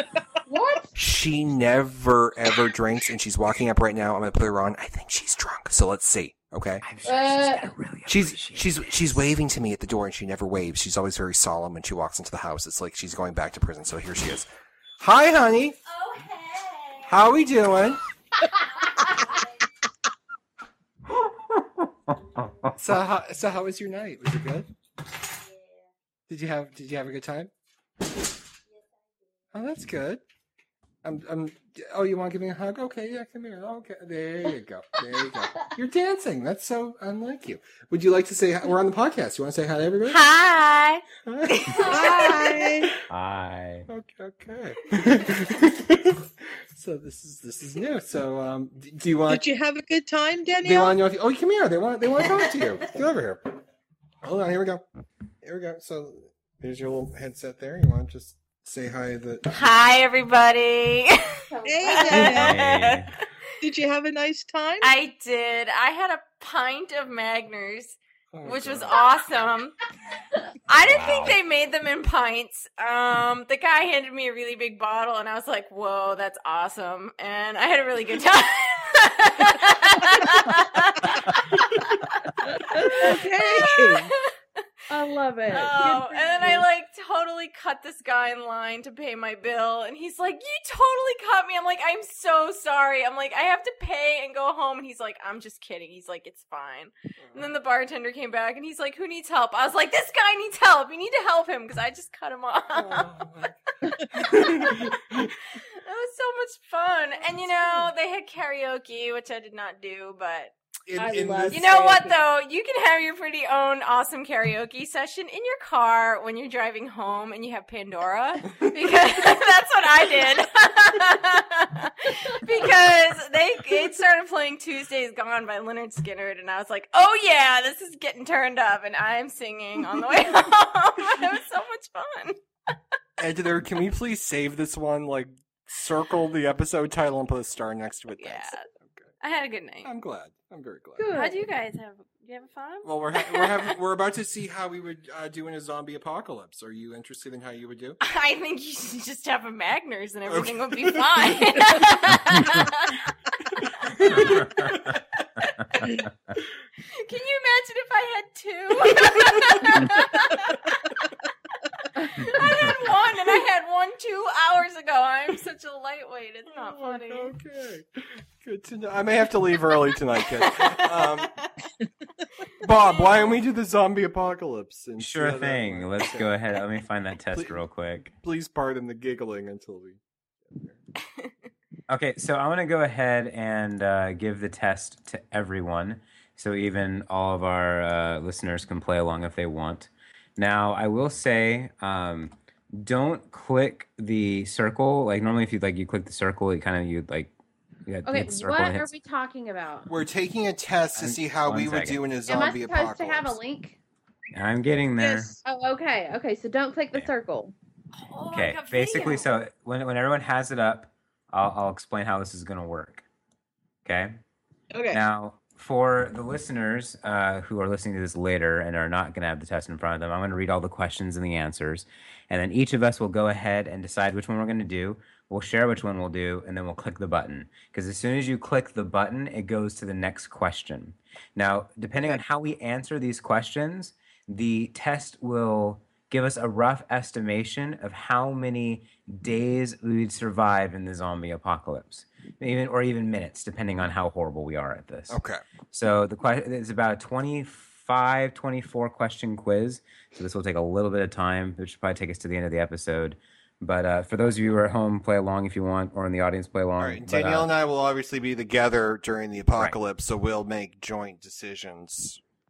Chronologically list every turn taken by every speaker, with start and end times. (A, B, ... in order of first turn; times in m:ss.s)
0:00.4-0:00.9 A
0:00.9-0:06.8 B
0:06.8-0:09.0 C
0:07.0-0:07.7 A
0:08.0-0:14.5 B
0:15.0-0:15.8 B
0:15.8-0:17.2 D
0:17.1-0:18.0 B
0:18.8-0:19.5 D
0:21.1-0:22.8 C
0:22.8-0:24.7 B
0:25.5-0:25.8 D
0:26.3-0:27.5 B
0:29.5-0:30.2 B
0:31.0-0:40.2 B
0:40.1-0:42.6 D
0:41.2-0:42.4 B
0:41.9-0:42.9 E
0:43.1-0:43.9 C
0:43.9-0:49.4 B
0:49.3-0:51.0 E
0:50.6-0:53.6 B
0:54.2-0:54.8 B
0:55.4-0:59.5 B
0:59.5-1:01.2 D
1:01.5-1:02.3 A
1:01.6-1:02.6 E
1:01.8-1:03.1 D
1:02.1-1:03.1 C
1:03.6-1:04.9 E
1:04.8-1:09.7 D
1:08.3-1:08.9 B
1:10.7-1:24.6 D
1:10.9-1:11.4 C
1:22.8-1:23.0 A
1:23.0-1:24.1 E
1:24.9-1:26.7 A
1:25.5-1:43.2 D
1:37.2-1:37.5 B
1:42.7-1:43.6 B
1:44.1-1:45.3 B
1:44.4-1:44.9 D
1:45.8-1:50.5 D
1:47.3-1:47.9 A
1:50.8-1:51.7 B
1:51.0-1:52.2 A
1:51.5-2:12.4 D
2:13.2-2:19.0 B
2:18.2-2:18.7 D
2:19.2-2:19.9 D
2:19.8-2:21.1 B
2:21.0-2:21.5 A
2:21.0-2:23.7 D
2:22.8-2:28.0 B
2:28.0-2:33.0 D
2:30.3-2:31.1 B
2:33.6-2:34.7 D
2:33.9-2:34.9 B
2:36.9-2:40.8 D
2:42.0-2:47.3 D
2:46.6-2:47.8 B
2:48.4-2:51.3 B
2:50.4-2:51.6 D
2:52.6-2:56.3 B
2:52.6-2:53.4 D
2:55.0-2:58.1 C
2:57.3-3:00.0 B
3:00.5-3:00.8 B
3:01.9-3:17.3 C
3:17.8-3:18.9 C
3:18.0-3:19.9 A
3:19.9-3:23.4 B
3:20.9-3:22.0 C
3:22.3-3:23.8 A
3:24.3-3:25.3 C
3:25.0-3:25.4 E
3:25.4-3:27.5 A
3:27.9-3:29.3 D
3:28.3-3:33.0 C
3:33.8-3:34.2 C
3:34.7-3:35.0 E
3:34.9-4:17.5 C
4:05.1-4:05.4 B
4:16.8-4:22.2 B